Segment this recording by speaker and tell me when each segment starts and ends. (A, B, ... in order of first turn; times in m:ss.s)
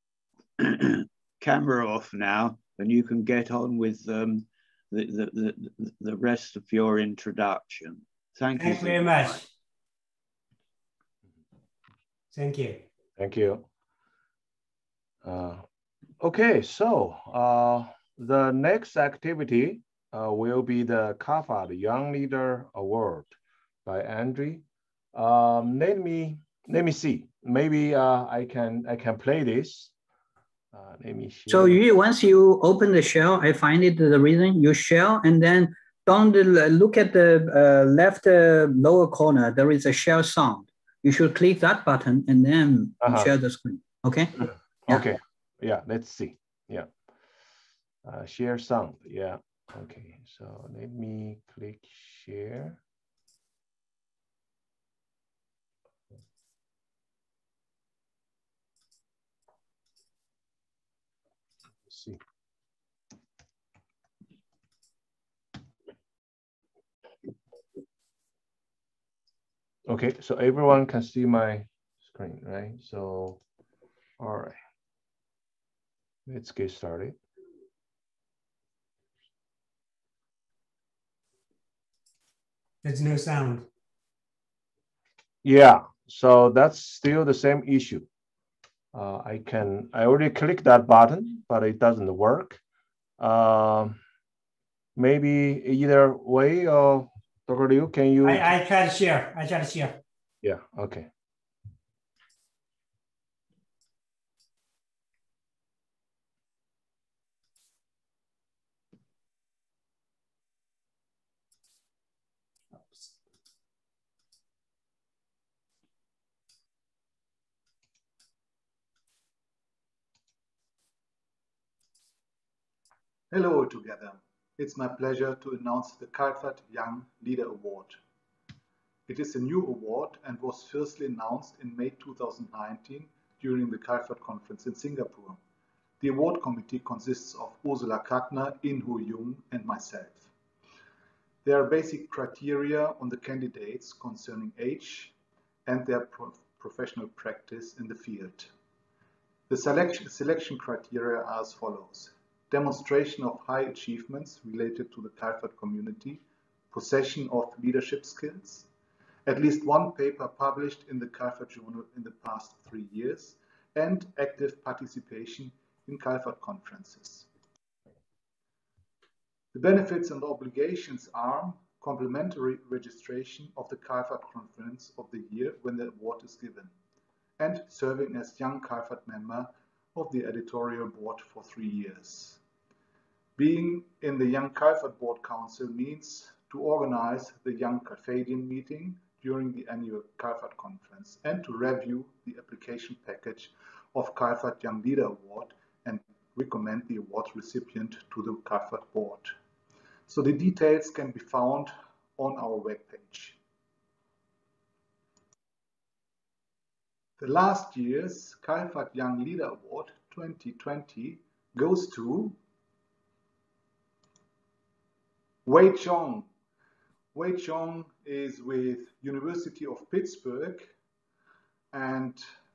0:00.6-0:09.4 A
0:08.6-0:09.5 B
0:12.3-0:12.8 B
0:13.2-0:13.6 C
0:15.2-0:15.6 C
0:16.2-0:29.9 C
0:30.7-0:31.8 C
0:31.5-0:44.4 D
0:43.0-0:43.3 C
0:44.9-0:46.9 C
0:48.0-0:52.8 C
1:01.8-1:02.2 C
1:09.9-1:13.4 C
1:14.2-1:14.6 C
1:16.3-1:17.2 C
1:22.8-1:23.6 B
1:25.4-1:28.1 C
1:28.9-1:32.6 C
1:33.2-1:34.0 C
1:35.0-1:38.5 C
1:38.2-1:40.0 B
1:40.4-1:41.1 C
1:52.8-1:53.1 B
2:03.3-2:08.0 E
2:09.1-2:15.4 E
2:16.0-2:20.3 E
2:21.4-2:25.1 E
2:25.6-2:28.5 E
2:29.5-2:38.7 E
2:39.2-2:47.3 E
2:49.5-2:56.7 E
2:57.4-3:02.4 E
3:03.4-3:19.3 E
3:20.1-3:23.4 E
3:27.2-3:32.4 E
3:35.4-3:36.3 E
3:37.1-3:40.7 E
3:41.7-3:42.2 E